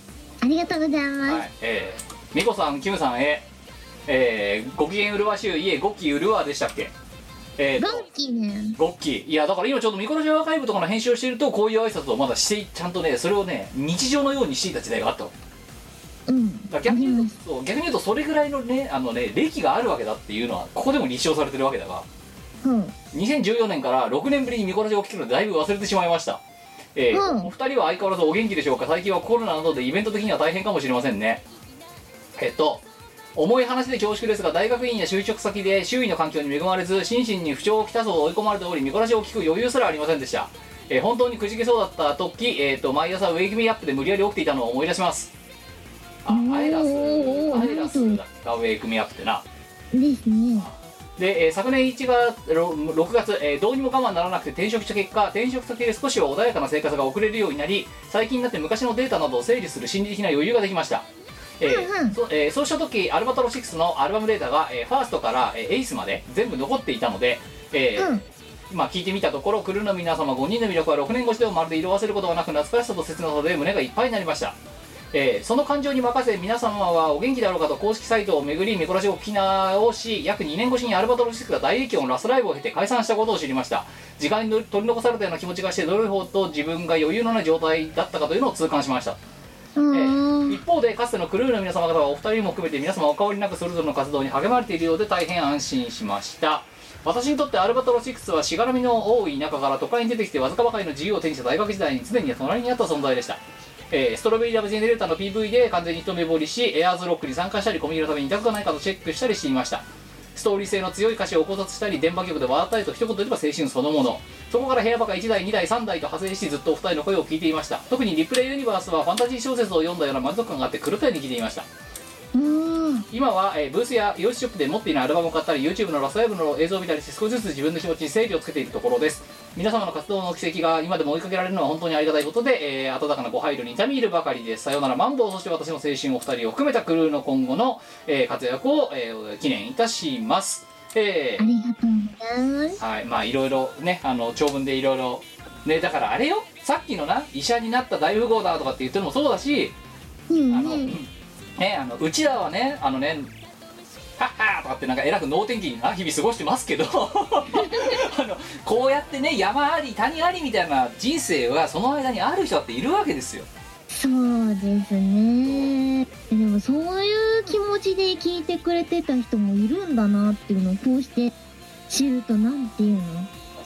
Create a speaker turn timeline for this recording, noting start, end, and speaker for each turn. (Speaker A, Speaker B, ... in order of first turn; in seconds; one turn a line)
Speaker A: 0.4-1.4
Speaker B: 1.3-3.5
Speaker B: 4.1-6.9
Speaker B: 7.6-8.1
Speaker A: 7.8-8.8
Speaker B: 8.8-15.3
Speaker A: 16.3-17.3
Speaker B: 16.7-22.1
Speaker A: 22.6-22.9
Speaker B: 23.1-26.4
Speaker B: 26.9-31.4
Speaker A: 27.1-27.5
Speaker B: 32.4-45.3
Speaker B: 46.2-49.4
Speaker A: 46.3-48.2
Speaker A: 49.9-50.7
Speaker B: 50.6-61.1
Speaker B: 61.6-68.2
Speaker A: 61.6-62.2
Speaker A: 68.0-68.2
Speaker B: 68.7-74.6
Speaker B: 75.1-89.2
Speaker A: 89.8-90.6
Speaker B: 89.9-121.7
Speaker A: 122.3-123.0
Speaker B: 123.1-141.4
Speaker A: 141.4-142.8
Speaker B: 142.8-149.8
Speaker A: 150.3-151.0
Speaker B: 150.5-153.3
Speaker B: 154.2-163.5
Speaker A: 157.5-158.0
Speaker A: 163.9-171.3
Speaker B: 165.4-165.7
Speaker A: 171.9-173.3